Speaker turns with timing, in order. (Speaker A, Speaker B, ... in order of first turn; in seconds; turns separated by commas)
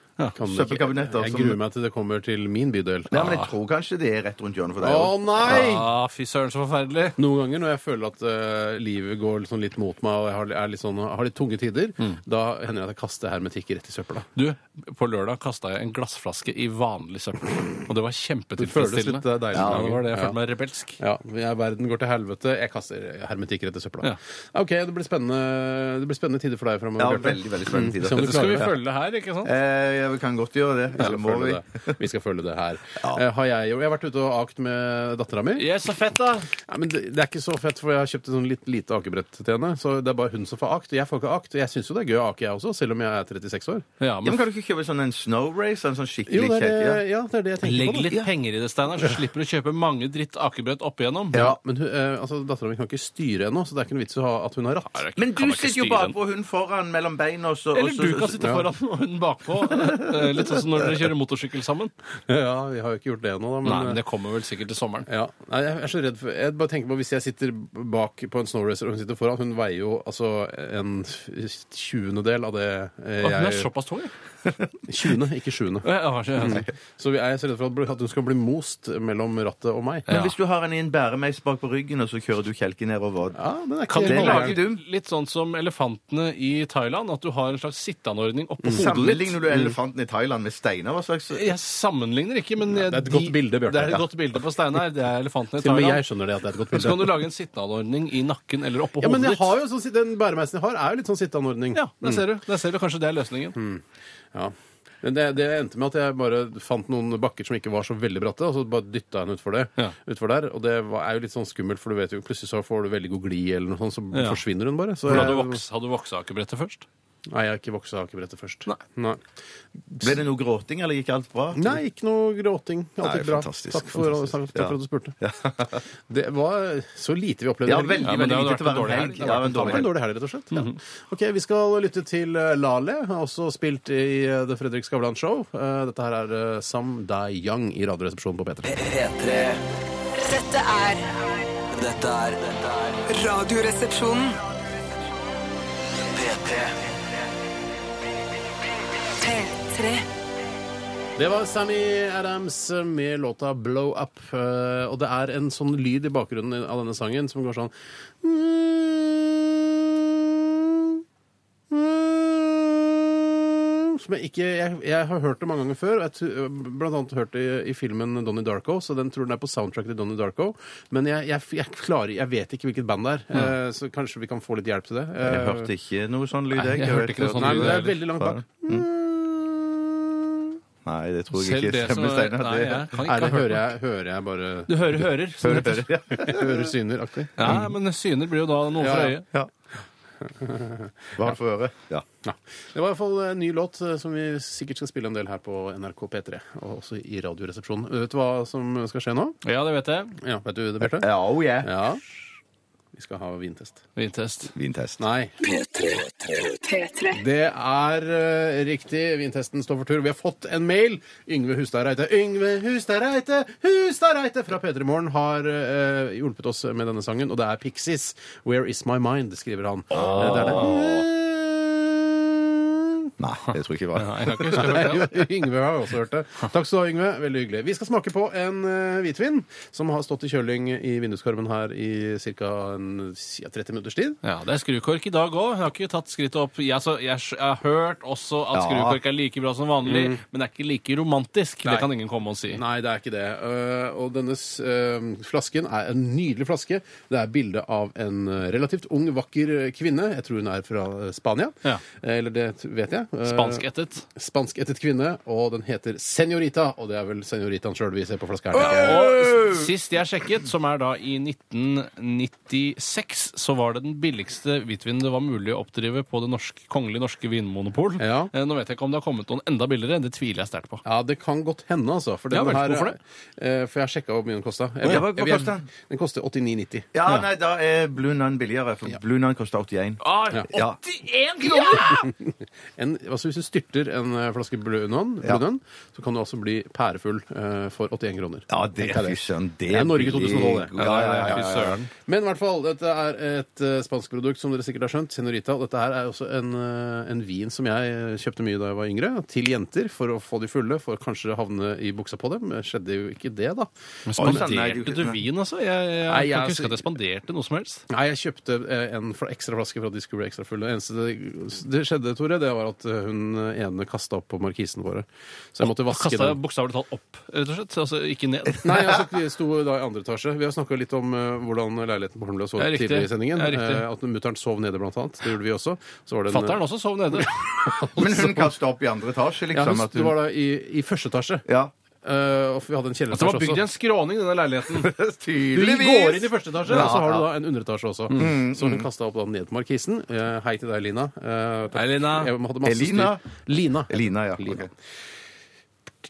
Speaker A: 0.3-3.2, Speaker B: 0.4-1.6, Speaker B: 3.1-5.6, Speaker C: 3.1-3.5, Speaker A: 4.8-5.9, Speaker C: 5.5-7.2, Speaker A: 7.2-14.3, Speaker C: 14.4-21.0, Speaker A: 18.6-20.4, Speaker B: 19.5-19.9, Speaker A: 21.0-28.7, Speaker B: 27.0-28.7, Speaker C: 28.1-29.5, Speaker B: 29.4-32.0, Speaker A: 31.0-35.7, Speaker C: 35.6-36.5, Speaker A: 36.6-43.9, Speaker C: 44.0-44.4, Speaker B: 44.2-47.0, Speaker A: 46.3-48.2, Speaker C: 47.6-51.5, Speaker A: 51.3-55.0, Speaker C: 55.0-56.2, Speaker B: 55.2-58.5, Speaker C: 57.7-61.9, Speaker A: 62.3-64.0, Speaker C: 63.6-65.1, Speaker A: 65.1-73.7, Speaker C: 73.2-74.1, Speaker A: 74.9-75.9, Speaker C: 75.8-76.7, Speaker A: 76.4-80.1, Speaker C: 80.1-80.3, Speaker B: 80.1-83.4, Speaker A: 83.3-84.6, Speaker C: 83.9-89.4, Speaker B: 84.0-84.8, Speaker B: 88.7-91.5, Speaker C: 91.3-96.0, Speaker A: 92.7-94.0, Speaker A: 95.6-97.2, Speaker C: 96.7-99.5, Speaker A: 99.0-102.2, Speaker C: 101.7-103.6, Speaker A: 103.6-103.8, Speaker A: 104.3-115.6, Speaker C: 114.1-114.4, Speaker C: 115.0-116.9, Speaker A: 117.3-119.2, Speaker A: 119.9-120.2, Speaker B: 120.0-121.8, Speaker A: 121.5-125.2, Speaker B: 123.0-125.8, Speaker A: 126.1-128.1, Speaker B: 127.7-129.9, Speaker C: 128.0-129.9, Speaker A: 129.2-138.8, Speaker D: 138.7-139.6, Speaker E: 140.2-141.1, Speaker D: 141.7-143.0, Speaker E: 143.1-144.4, Speaker D: 146.1-146.8, Speaker E: 149.2-150.1, Speaker A: 151.2-161.0, Speaker A: 161.7-175.7, Speaker B: 175.2-178.9, Speaker C: 176.5-178.0, Speaker A: 177.4-180.4, Speaker B: 180.8-182.9, Speaker C: 181.3-183.7, Speaker A: 183.0-184.8, Speaker C: 184.7-185.9, Speaker B: 185.4-186.7, Speaker A: 186.1-187.6, Speaker C: 187.4-189.3, Speaker A: 188.8-189.2, Speaker A: 190.2-190.9, Speaker B: 191.2-192.1, Speaker A: 192.2-199.4, Speaker C: 199.4-200.2, Speaker A: 200.2-201.1, Speaker B: 200.9-201.7, Speaker A: 201.6-202.0, Speaker A: 202.9-203.8, Speaker C: 204.0-204.5, Speaker B: 204.5-205.0, Speaker A: 205.0-205.3, Speaker D: 205.4-206.7, Speaker E: 206.7-207.2, Speaker A: 207.1-223.1, Speaker B: 219.9-221.1, Speaker C: 219.9-220.8, Speaker B: 223.2-224.9, Speaker C: 224.0-225.2, Speaker A: 224.5-234.2, Speaker C: 234.2-242.6, Speaker B: 238.5-239.0, Speaker A: 239.9-240.2, Speaker A: 242.5-259.1, Speaker C: 253.2-254.1, Speaker B: 258.6-259.7, Speaker C: 258.6-270.8, Speaker A: 268.0-268.3, Speaker A: 270.9-276.9, Speaker C: 272.3-273.0, Speaker B: 274.8-275.7, Speaker B: 276.9-280.8, Speaker C: 280.0-282.1, Speaker B: 281.4-281.9, Speaker A: 281.9-290.7, Speaker B: 288.5-291.8, Speaker C: 290.8-291.9, Speaker A: 292.1-304.5, Speaker C: 304.1-307.9, Speaker B: 304.2-305.2, Speaker A: 306.1-306.8, Speaker A: 307.9-316.4, Speaker C: 315.6-318.9, Speaker A: 318.6-326.6, Speaker C: 322.6-323.9, Speaker C: 326.3-327.6, Speaker A: 327.2-328.5, Speaker B: 327.9-330.1, Speaker A: 329.5-331.4, Speaker B: 331.5-331.7, Speaker A: 332.0-333.6, Speaker C: 333.1-334.9, Speaker B: 334.8-337.3, Speaker A: 335.5-344.7, Speaker C: 336.6-336.9, Speaker B: 338.1-338.9, Speaker C: 341.8-342.3, Speaker B: 342.6-343.2, Speaker B: 343.9-344.7